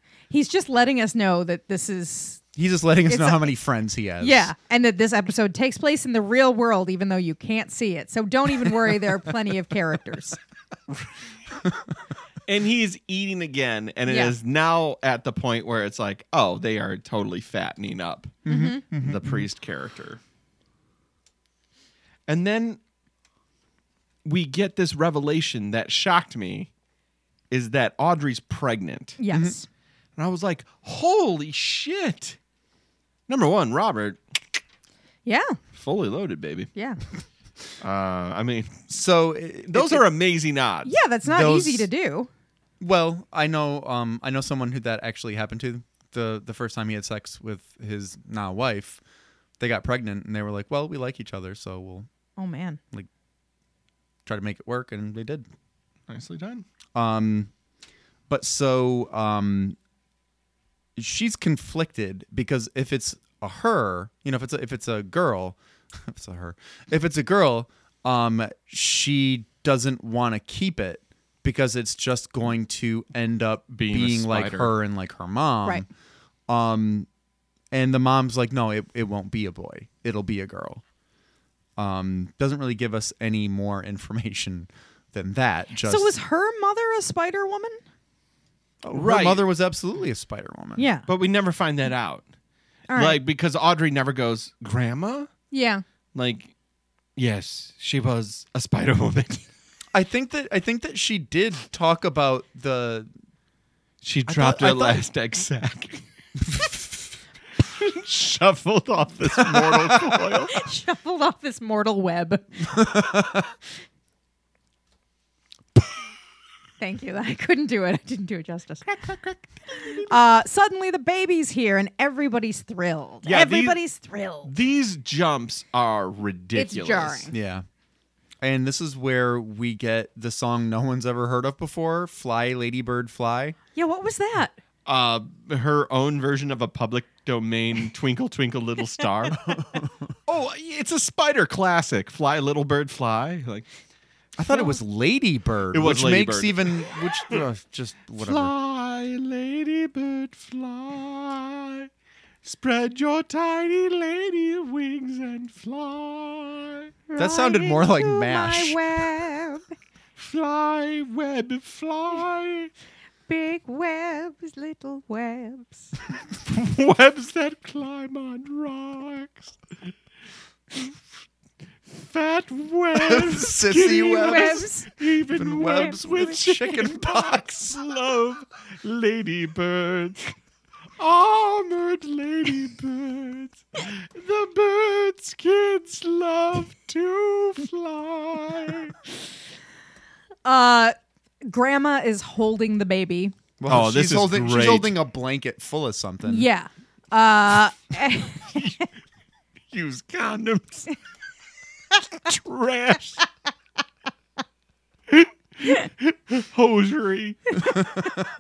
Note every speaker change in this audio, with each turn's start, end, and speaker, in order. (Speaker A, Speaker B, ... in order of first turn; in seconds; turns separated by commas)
Speaker A: 0.3-2.4, Speaker B: 2.6-4.5, Speaker A: 3.1-3.5, Speaker A: 4.2-10.4, Speaker C: 12.5-20.2, Speaker A: 14.1-14.3, Speaker B: 18.4-19.5, Speaker A: 18.5-18.8, Speaker C: 22.3-22.8, Speaker C: 24.2-26.7, Speaker C: 27.5-29.2, Speaker A: 29.2-29.7, Speaker B: 29.3-29.6, Speaker C: 30.2-32.4, Speaker C: 33.3-34.6, Speaker A: 35.3-35.6, Speaker C: 35.7-36.7, Speaker A: 36.8-37.0, Speaker C: 37.8-38.9, Speaker B: 38.9-40.0, Speaker C: 39.7-41.0, Speaker A: 40.9-42.3, Speaker B: 41.2-41.9, Speaker B: 42.8-49.0, Speaker B: 49.6-52.1, Speaker A: 52.4-52.8, Speaker B: 54.3-55.5, Speaker C: 56.1-56.6, Speaker B: 57.0-57.5, Speaker B: 58.3-59.8, Speaker B: 61.0-75.9, Speaker C: 73.7-74.7, Speaker B: 76.5-77.1, Speaker B: 77.7-80.8, Speaker B: 81.8-86.2, Speaker A: 85.8-87.8, Speaker B: 88.8-90.9, Speaker C: 88.9-89.4, Speaker A: 90.8-91.1, Speaker C: 91.1-92.3, Speaker A: 92.9-93.2, Speaker C: 93.0-95.3, Speaker A: 95.5-95.8, Speaker C: 96.1-96.5, Speaker C: 97.2-99.4, Speaker B: 99.9-103.1, Speaker C: 104.0-106.0, Speaker B: 104.3-105.0, Speaker C: 107.6-110.6, Speaker B: 109.4-110.2, Speaker A: 110.5-112.7, Speaker B: 112.8-113.5, Speaker A: 116.8-118.8, Speaker C: 118.8-120.1, Speaker A: 120.1-124.5, Speaker C: 123.2-123.8, Speaker C: 124.5-127.3, Speaker A: 126.5-127.3, Speaker B: 127.3-127.7, Speaker B: 128.4-133.6, Speaker A: 133.8-134.6, Speaker C: 134.9-139.6, Speaker B: 139.5-139.9, Speaker C: 140.3-143.7, Speaker B: 144.4-148.5, Speaker C: 145.7-147.4, Speaker C: 148.2-151.9, Speaker C: 152.4-156.9, Speaker A: 157.1-159.7, Speaker B: 157.2-158.8, Speaker C: 160.2-162.7, Speaker A: 163.3-165.9, Speaker C: 166.4-169.6, Speaker C: 171.9-180.3, Speaker B: 172.9-174.7, Speaker A: 174.2-174.9, Speaker B: 175.3-177.8, Speaker A: 175.7-176.2, Speaker C: 181.0-189.0, Speaker A: 190.4-193.3, Speaker B: 193.6-196.5, Speaker C: 193.7-194.9, Speaker A: 196.2-198.8, Speaker C: 199.7-200.9, Speaker C: 202.2-203.2, Speaker C: 205.1-207.6